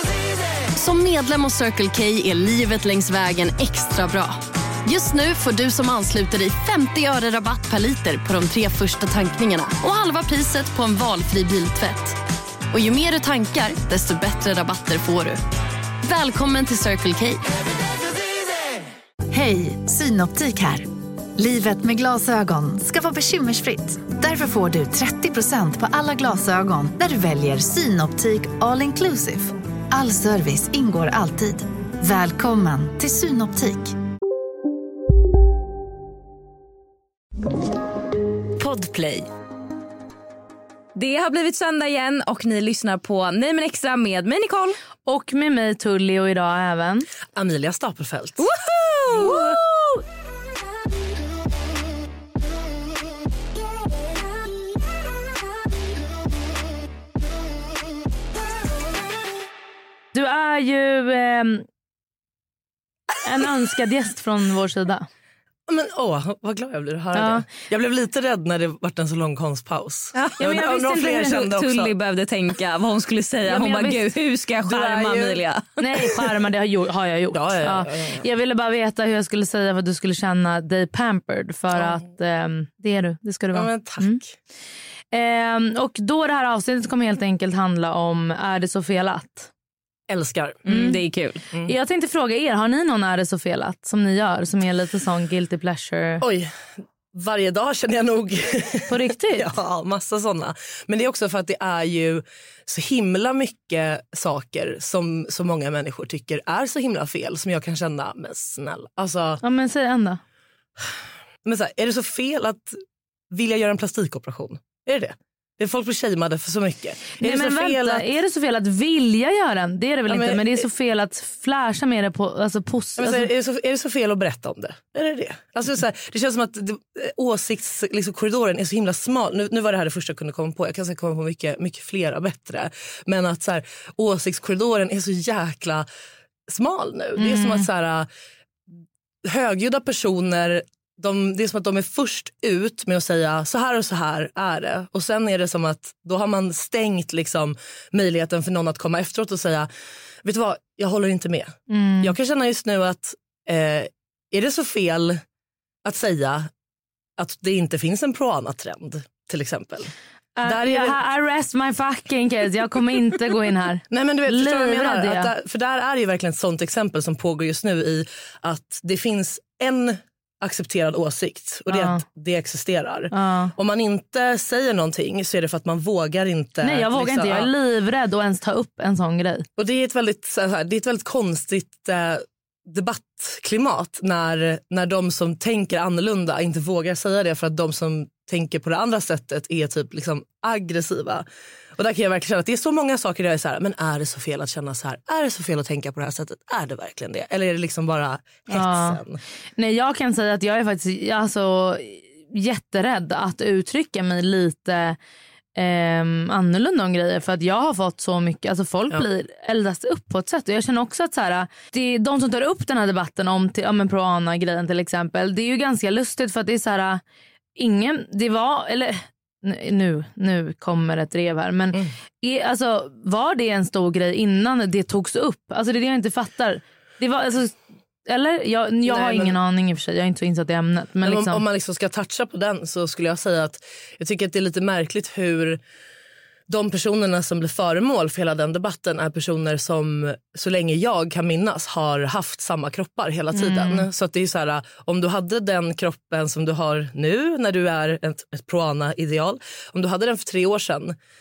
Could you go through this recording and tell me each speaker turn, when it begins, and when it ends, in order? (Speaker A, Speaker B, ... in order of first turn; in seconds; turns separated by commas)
Speaker A: 0.7-12.2, Speaker A: 12.7-15.4, Speaker A: 16.0-17.4, Speaker B: 19.3-34.0, Speaker C: 38.6-39.3, Speaker C: 40.9-44.8, Speaker D: 45.0-47.1, Speaker E: 47.3-48.5, Speaker C: 48.4-50.0, Speaker E: 49.1-49.6, Speaker D: 60.1-61.6, Speaker D: 63.2-65.1, Speaker E: 65.7-71.9, Speaker D: 67.1-67.4, Speaker D: 70.4-71.3, Speaker C: 71.1-75.8, Speaker D: 73.5-74.0, Speaker E: 74.6-75.4, Speaker D: 75.8-84.2, Speaker E: 77.3-78.2, Speaker E: 81.8-82.0, Speaker E: 83.5-84.3, Speaker D: 85.1-89.5, Speaker E: 90.1-90.6, Speaker C: 90.6-91.4, Speaker D: 90.7-91.0, Speaker D: 91.7-96.2, Speaker E: 96.2-96.5, Speaker E: 97.1-109.4, Speaker D: 98.9-99.5, Speaker D: 109.4-110.2, Speaker E: 111.4-118.0, Speaker D: 117.2-123.3, Speaker E: 120.1-120.7, Speaker E: 123.0-135.9, Speaker E: 136.5-138.1, Speaker D: 137.2-137.7, Speaker E: 139.2-149.7, Speaker E: 150.2-155.2, Speaker D: 151.7-152.1, Speaker E: 155.8-156.5, Speaker E: 157.2-159.9, Speaker D: 160.3-165.3, Speaker E: 160.4-161.0, Speaker E: 163.9-177.5, Speaker D: 171.7-172.0, Speaker D: 173.1-173.5, Speaker D: 176.6-179.5, Speaker E: 179.6-199.2, Speaker D: 198.5-199.0, Speaker D: 199.6-205.0, Speaker D: 205.6-217.0, Speaker D: 217.6-231.4, Speaker E: 228.8-229.4, Speaker E: 231.0-235.6, Speaker E: 236.5-250.9, Speaker D: 243.3-243.9